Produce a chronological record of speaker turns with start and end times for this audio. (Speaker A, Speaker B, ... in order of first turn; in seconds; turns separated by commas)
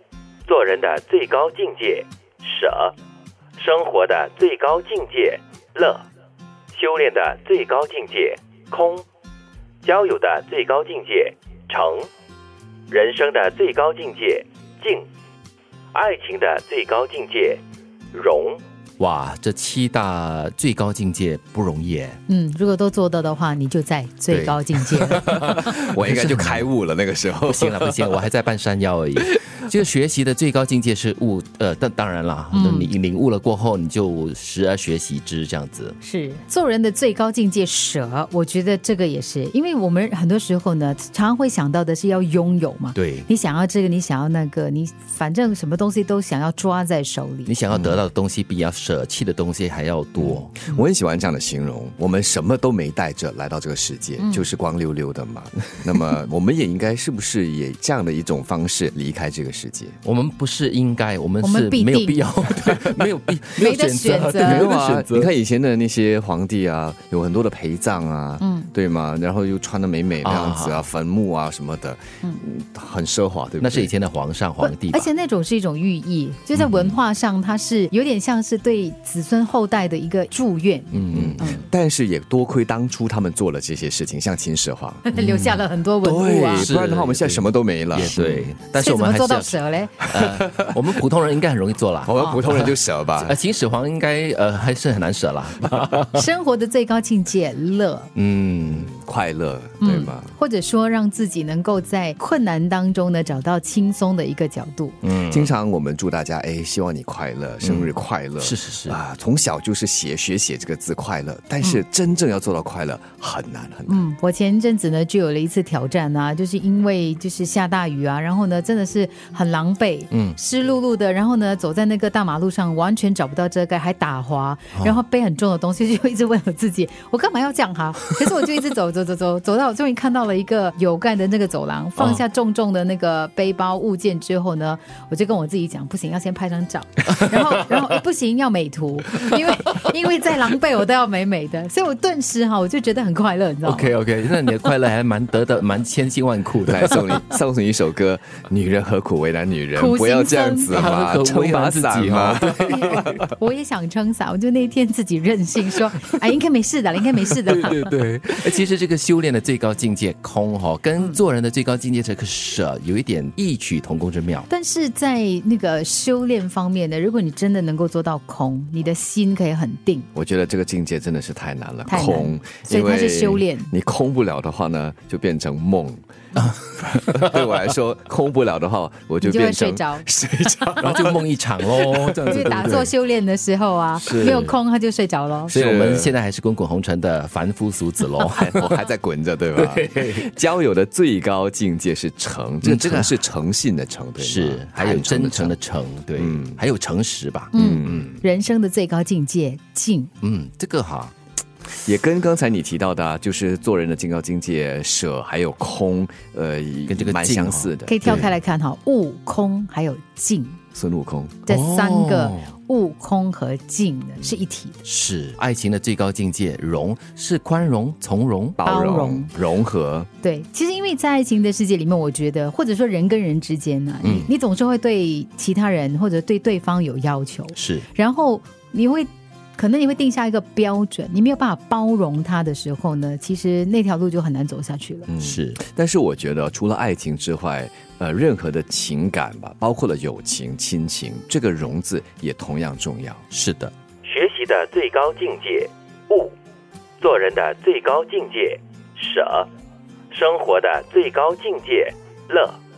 Speaker A: 0.5-2.9, Speaker A: 3.6-6.0, Speaker A: 6.7-9.0, Speaker A: 9.8-12.1, Speaker A: 12.9-15.1, Speaker A: 15.9-17.6, Speaker A: 18.1-18.6, Speaker B: 19.0-22.2, Speaker C: 22.3-25.2, Speaker B: 24.3-26.6, Speaker D: 25.4-28.2, Speaker B: 27.4-36.0, Speaker C: 32.5-32.9, Speaker C: 36.0-47.5, Speaker B: 42.9-43.3, Speaker B: 47.5-50.6, Speaker D: 47.7-48.0, Speaker D: 50.2-60.0, Speaker C: 54.2-54.5, Speaker B: 60.0-65.3, Speaker C: 61.4-62.3, Speaker C: 63.6-64.7, Speaker D: 64.4-73.9, Speaker C: 68.4-68.7, Speaker B: 70.2-70.8, Speaker B: 73.6-75.1, Speaker C: 74.6-81.7, Speaker B: 76.6-76.9, Speaker B: 80.9-81.6, Speaker D: 81.1-85.1, Speaker C: 85.0-86.7, Speaker B: 85.2-85.6, Speaker D: 86.0-88.5, Speaker B: 86.5-96.2, Speaker C: 88.8-90.0, Speaker D: 90.2-90.7, Speaker D: 92.0-93.4, Speaker C: 96.1-98.1, Speaker B: 98.1-98.9, Speaker D: 98.7-100.3, Speaker C: 99.8-105.0, Speaker B: 105.0-105.5, Speaker D: 105.3-114.0, Speaker B: 107.6-109.0, Speaker C: 113.9-143.9, Speaker B: 124.7-125.0, Speaker B: 137.2-137.5, Speaker B: 139.2-139.9, Speaker B: 143.6-147.2, Speaker D: 146.7-153.3, Speaker C: 149.7-150.8, Speaker B: 150.7-153.2, Speaker C: 152.9-157.9, Speaker B: 157.4-164.5, Speaker C: 164.5-170.1, Speaker D: 170.1-176.0, Speaker C: 171.9-173.7, Speaker B: 176.4-177.4, Speaker D: 177.0-182.2, Speaker C: 179.2-180.1, Speaker B: 180.8-182.9, Speaker C: 182.2-185.5, Speaker B: 184.0-184.6, Speaker B: 185.5-188.6, Speaker D: 185.5-186.1, Speaker D: 188.3-195.6, Speaker B: 189.6-190.2, Speaker B: 192.6-193.2, Speaker B: 194.2-198.0, Speaker D: 196.2-196.6, Speaker C: 197.5-200.1, Speaker D: 197.5-198.2, Speaker B: 200.2-201.1, Speaker D: 201.8-208.3, Speaker B: 206.9-208.3, Speaker C: 207.8-210.6, Speaker D: 210.7-211.4, Speaker C: 211.4-214.8, Speaker B: 211.5-212.5, Speaker B: 214.8-218.6, Speaker D: 218.6-220.1, Speaker C: 218.6-219.3, Speaker C: 220.2-235.1, Speaker B: 224.0-224.3, Speaker B: 227.5-227.8, Speaker D: 235.1-243.2, Speaker B: 235.2-235.6, Speaker B: 243.3-243.7, Speaker A: 244.0-246.3, Speaker A: 247.0-249.5, Speaker A: 250.1-252.6